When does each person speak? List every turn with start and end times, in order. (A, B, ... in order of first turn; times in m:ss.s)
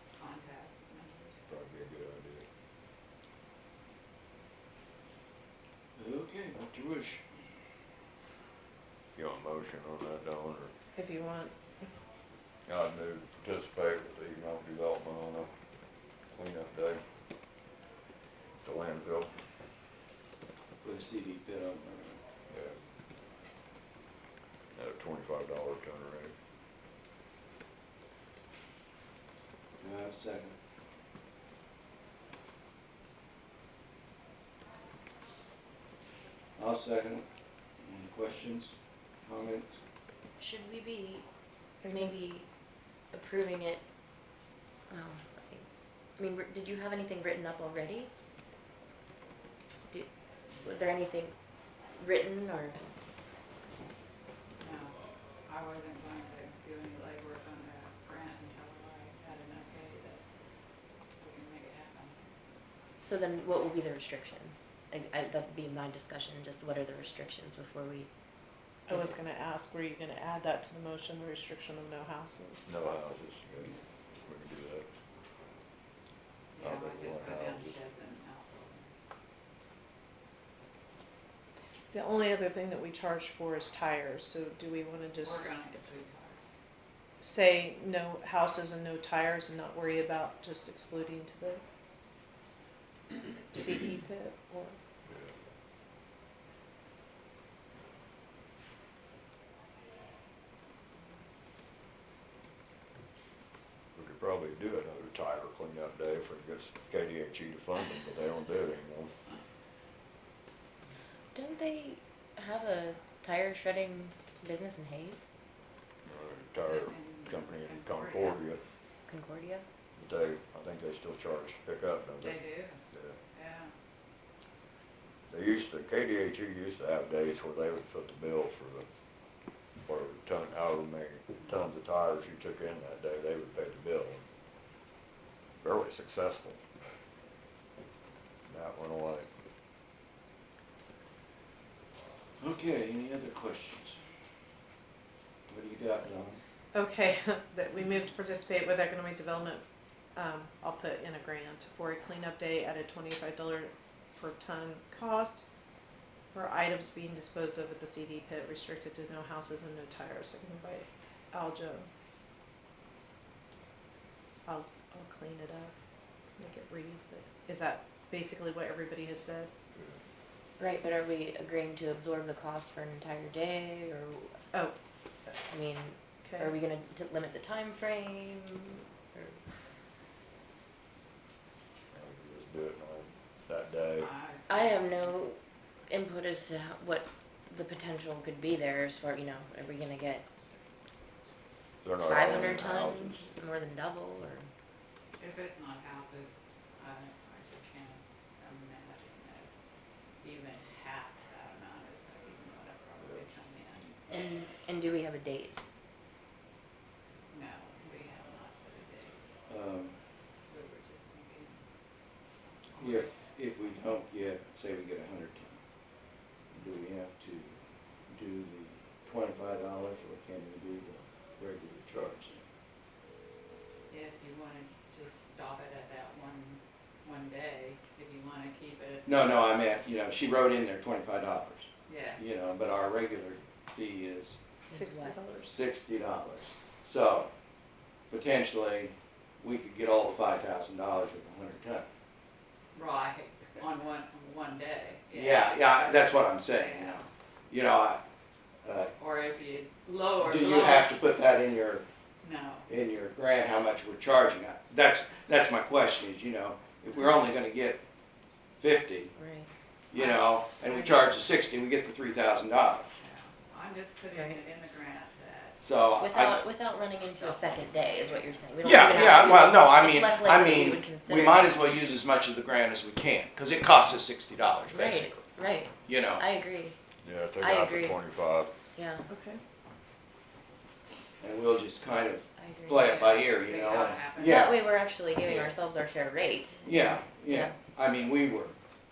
0:00.2-0:01.5 A
0:01.5-0:02.5 B
0:06.0-0:07.2 C
0:09.2-0:10.7 B
0:11.0-0:11.9 D
0:12.7-0:15.5 B
0:16.3-0:17.0 B
0:18.6-0:19.3 B
0:20.8-0:22.2 C
0:22.5-0:22.8 B
0:24.7-0:26.3 B
0:29.8-0:30.6 C
0:36.6-0:37.2 C
0:37.8-0:39.8 C
0:40.4-0:41.3 E
0:41.8-0:42.1 D
0:41.8-0:42.5 E
0:43.1-0:43.8 E
0:44.9-0:48.1 E
0:50.6-0:51.4 E
0:51.9-0:53.0 E
0:54.6-1:00.2 A
1:01.2-1:02.3 A
1:03.0-1:08.1 E
1:08.9-1:09.1 E
1:08.9-1:12.7 D
1:12.7-1:13.7 B
1:14.2-1:14.9 B
1:16.6-1:18.9 A
1:16.6-1:17.8 B
1:21.9-1:25.5 D
1:25.2-1:26.4 A
1:27.2-1:31.6 D
1:33.5-1:34.8 D
1:35.1-1:35.3 B
1:44.0-1:49.1 B
1:51.3-1:55.3 E
1:56.0-1:58.6 B
1:56.7-1:58.4 A
1:59.1-1:59.7 E
2:00.0-2:02.4 B
2:02.2-2:02.8 A
2:02.9-2:03.2 B
2:03.3-2:03.7 A
2:05.3-2:08.9 B
2:09.8-2:14.2 B
2:15.6-2:16.6 B
2:18.5-2:19.3 B
2:22.4-2:24.0 C
2:25.5-2:26.4 C
2:26.7-2:35.4 D
2:36.3-2:41.9 D
2:44.5-2:45.7 D
2:46.4-2:49.5 D
2:49.8-2:50.0 B
2:50.6-2:54.4 E
2:55.4-2:59.4 E
2:56.2-2:56.5 D
3:01.9-3:04.1 B
3:04.0-3:05.2 A
3:04.5-3:05.4 E
3:05.9-3:10.2 E
3:11.8-3:13.3 B
3:12.0-3:14.5 E
3:15.2-3:19.5 A
3:20.2-3:24.1 A
3:24.1-3:25.6 E
3:27.3-3:29.2 A
3:29.5-3:30.0 C
3:30.5-3:31.6 A
3:32.7-3:33.1 A
3:32.8-3:35.6 C
3:36.5-3:37.6 C
3:38.1-3:42.4 C
3:43.9-3:49.1 A
3:49.1-3:54.4 C
3:51.9-3:52.2 A
3:54.7-3:55.3 E
3:54.7-3:55.5 D
3:55.3-3:57.3 C
3:58.1-4:01.9 C
4:02.8-4:06.0 A
4:05.1-4:08.0 C
4:06.5-4:07.0 A
4:08.6-4:08.9 C
4:09.0-4:11.0 A
4:10.2-4:11.8 C
4:12.2-4:12.7 A
4:12.7-4:17.8 C
4:18.6-4:19.2 C
4:19.2-4:19.5 E
4:19.9-4:22.9 C
4:19.9-4:20.3 A
4:20.7-4:21.0 E
4:23.0-4:25.6 A
4:24.2-4:24.4 E
4:25.6-4:26.5 C
4:26.0-4:31.7 E
4:27.2-4:28.3 A
4:28.6-4:35.3 C
4:34.7-4:36.8 E
4:35.8-4:36.2 C
4:37.0-4:38.5 B
4:37.4-4:38.0 E
4:38.8-4:39.0 E
4:39.1-4:39.4 D
4:41.2-4:44.6 C
4:42.4-4:42.8 E
4:42.8-4:44.5 A
4:44.0-4:47.6 E
4:45.2-4:45.5 C
4:46.6-4:48.6 C